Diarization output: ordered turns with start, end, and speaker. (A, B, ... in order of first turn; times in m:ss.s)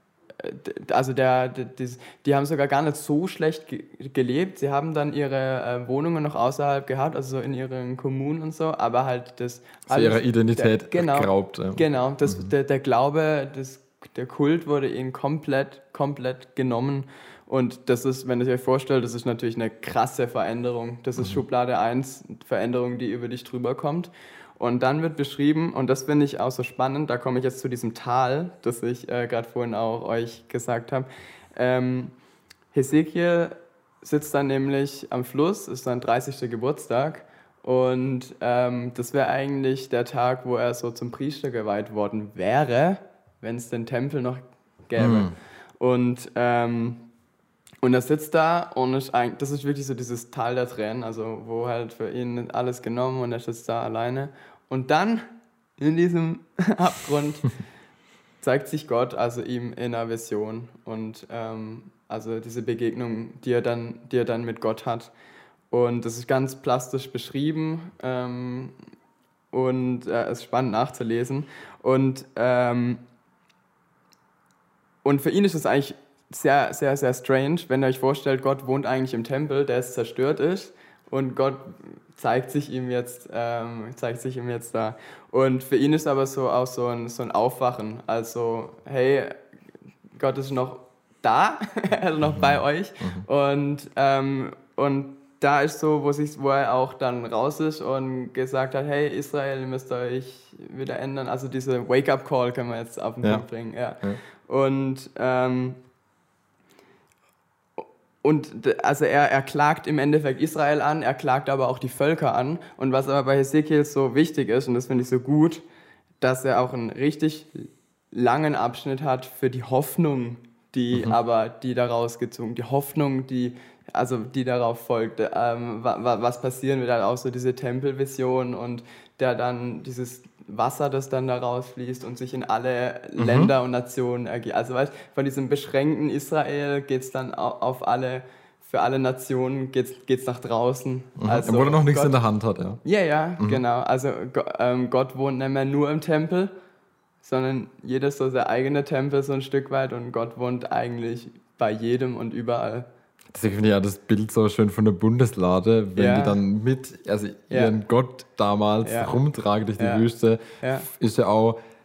0:00.4-0:32.1 A
0:09.9-0:12.5 B
0:32.7-0:47.0 A
0:45.0-0:45.3 B
0:47.8-0:55.3 A
0:55.8-0:57.6 A
0:58.4-1:05.1 A
1:05.7-1:08.7 A
1:09.5-1:13.0 A
1:15.0-1:29.4 A
1:30.2-1:45.8 A
1:32.3-1:33.2 B
1:47.8-1:55.6 A
1:56.2-2:22.1 A
2:13.2-2:13.5 B
2:21.2-2:22.8 B
2:22.8-2:26.5 A
2:27.2-2:32.9 A
2:33.3-2:41.6 B
2:36.0-2:36.4 A
2:38.8-2:39.2 A
2:39.8-2:40.1 A
2:40.6-2:40.9 A